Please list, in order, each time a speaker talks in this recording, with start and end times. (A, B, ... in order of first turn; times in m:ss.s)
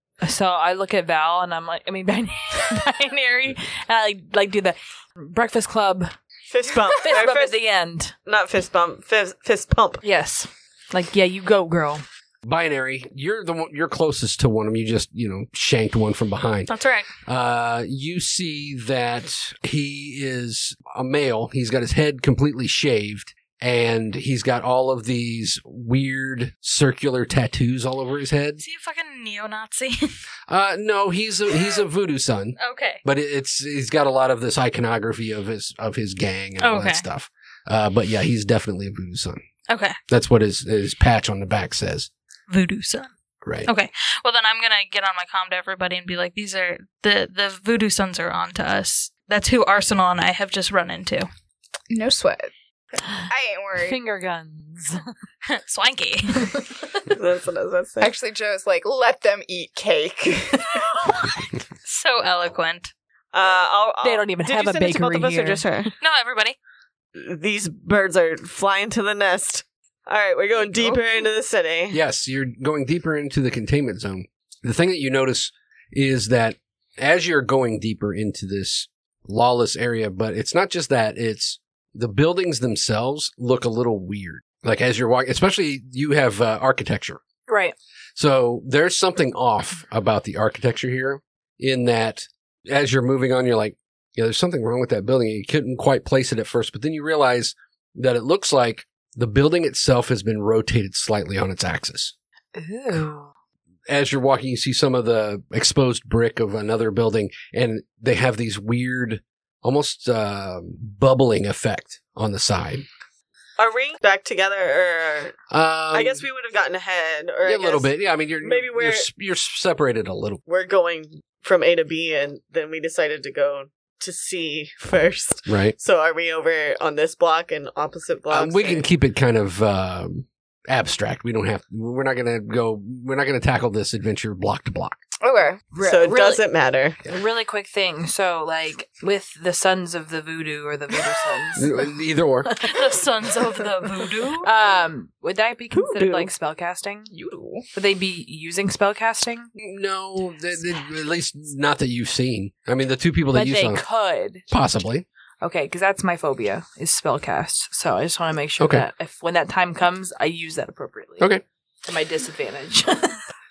0:00.2-0:06.1 A
0:06.5-0:07.6 B
0:06.9-0:08.1 A
0:08.2-0:10.0 B
0:10.0-0:12.0 A
0:12.4-0:16.7 C
0:16.7-0:17.1 D
0:17.2-0:28.6 C
0:28.6-0:30.2 D
0:30.5-0:39.4 C
0:32.6-0:33.0 D
0:36.6-0:37.0 D
0:39.7-0:40.0 D
0:40.1-0:42.1 C
0:42.5-0:43.1 D
0:43.4-0:43.7 C
0:43.6-0:51.3 D
0:51.9-0:52.5 E
0:53.0-0:55.1 A
0:53.2-0:54.0 E
0:55.5-0:56.6 D
0:56.3-0:57.1 A
0:57.1-0:58.1 B
0:58.0-1:01.2 E
1:01.8-1:02.9 D
1:03.3-1:05.9 B
1:04.0-1:05.7 A
1:06.0-1:06.6 D
1:07.2-1:12.0 B
1:10.6-1:11.0 D
1:11.9-1:27.2 C
1:27.5-1:27.7 A
1:28.2-1:42.1 C
1:42.5-1:43.3 A
1:43.9-1:52.8 C
1:53.6-1:55.3 B
1:55.5-1:56.2 C
1:55.9-1:57.9 B
1:57.4-2:00.4 C
1:58.4-1:59.1 B
2:00.4-2:08.9 B
2:05.5-2:05.7 C
2:08.3-2:15.0 C
2:15.2-2:15.7 E
2:15.7-2:16.4 A
2:15.8-2:17.0 B
2:17.0-2:21.8 A
2:21.5-2:22.5 C
2:22.5-2:22.9 A
2:22.6-2:24.5 D
2:24.4-2:27.1 A
2:25.7-2:26.3 B
2:27.1-2:27.6 E
2:27.7-2:29.5 A
2:29.6-2:33.8 C
2:33.3-2:34.4 A
2:34.5-2:35.0 C
2:35.4-2:41.3 A
2:38.6-2:38.8 C
2:41.8-2:43.2 A